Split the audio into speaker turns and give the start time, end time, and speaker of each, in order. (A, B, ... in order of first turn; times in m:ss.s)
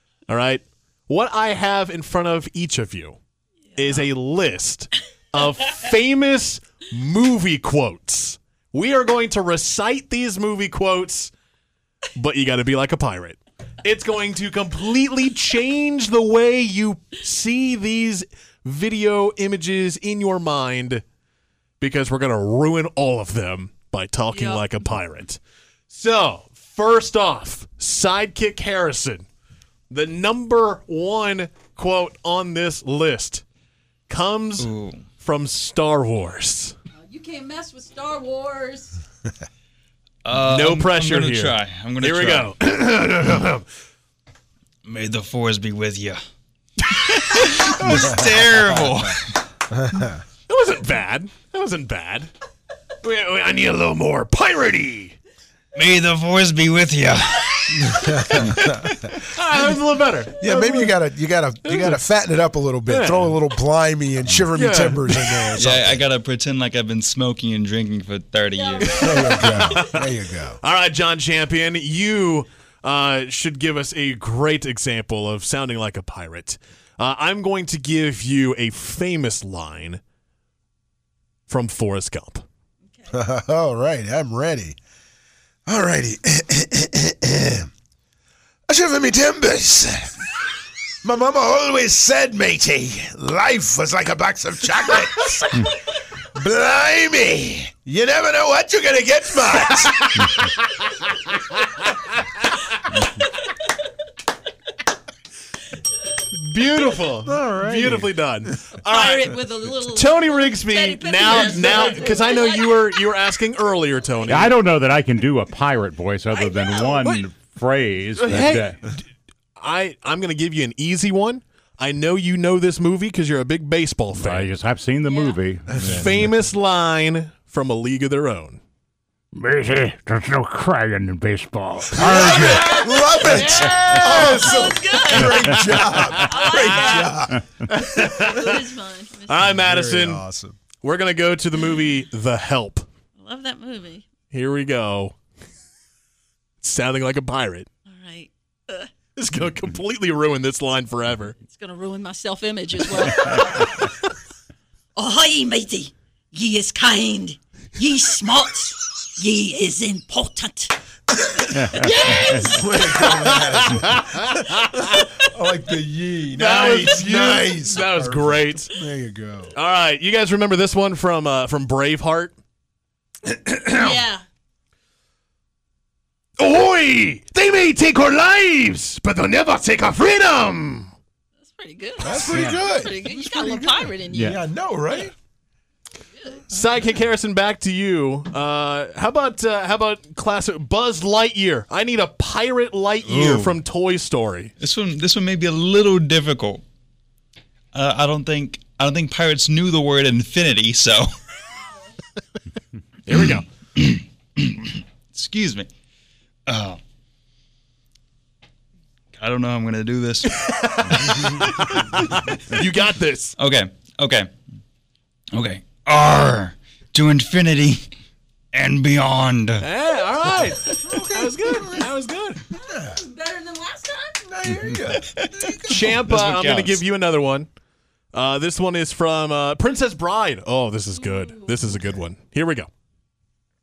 0:00.3-0:03.2 A
0:03.8-0:11.3 A
0:12.1-0:21.0 A
0:21.8-0:29.2 A
0:24.3-0:24.6 B
0:29.9-0:33.4 A
0:34.1-0:36.7 A
0:34.6-0:35.0 C
0:37.1-0:38.9 C
0:40.2-0:42.5 C
0:40.4-0:43.6 A
0:44.8-0:46.2 C
0:46.8-0:49.4 C
0:47.9-0:48.9 D
0:49.7-0:50.2 D
0:50.5-0:52.3 A
0:53.0-0:55.2 A
0:55.7-0:58.7 C
0:57.8-0:59.0 D
0:58.1-1:01.0 A
1:00.4-1:06.0 D
1:01.6-1:02.0 A
1:02.9-1:03.4 A
1:04.5-1:05.6 A
1:05.5-1:09.5 C
1:08.8-1:20.0 A
1:08.8-1:10.6 D
1:21.5-1:22.4 A
1:23.1-1:24.8 D
1:25.6-1:27.7 D
1:28.7-1:30.3 D
1:31.0-1:40.0 D
1:39.7-1:42.7 A
1:46.2-1:54.5 A
1:47.2-1:48.5 D
1:48.9-1:51.5 B
1:51.3-1:52.3 E
1:51.6-1:51.9 C
1:52.1-1:52.4 B
1:54.3-1:58.8 E
1:57.0-1:57.2 A
1:58.2-1:59.0 A
1:59.6-2:04.5 A
2:04.2-2:06.3 E
2:05.7-2:06.1 D
2:05.8-2:08.6 A
2:09.3-2:15.8 E
2:11.9-2:18.2 D
2:12.4-2:14.4 C
2:13.6-2:14.6 A
2:14.6-2:15.2 B
2:16.4-2:17.1 B
2:16.4-2:17.4 E
2:17.7-2:18.6 A
2:18.3-2:19.4 B
2:19.3-2:20.2 A
2:19.5-2:20.6 D
2:20.8-2:22.8 A
2:23.2-2:24.0 B
2:24.3-2:25.1 A
2:26.6-2:27.7 A
2:27.9-2:28.9 B
2:29.1-2:31.4 A
2:31.5-2:33.7 B
2:33.1-2:33.5 E
2:34.9-2:40.8 B
2:41.3-2:49.5 D
2:41.5-2:42.6 E
2:41.8-2:45.2 A
2:46.3-2:48.8 A
2:49.5-2:52.3 A
2:53.3-2:54.0 A
2:53.8-2:54.2 B
2:56.4-3:00.9 A
3:01.4-3:04.3 B
3:02.0-3:05.1 D
3:02.1-3:02.7 E
3:04.1-3:04.4 E
3:06.5-3:14.5 A
3:13.0-3:13.6 C
3:14.6-3:16.6 C
3:17.7-3:21.1 C
3:23.0-3:23.4 A
3:23.1-3:25.7 C
3:26.5-3:26.8 C
3:29.1-3:31.5 C
3:30.4-3:33.4 A
3:33.4-3:34.3 C
3:35.3-3:37.9 C
3:38.5-3:39.6 C
3:39.6-3:42.4 A
3:40.6-3:41.9 D
3:42.5-3:43.1 D
3:42.9-3:43.6 C
3:44.2-3:46.0 D
3:44.5-3:44.8 E
3:44.8-3:46.8 C
3:45.6-3:47.5 A
3:48.1-3:52.7 A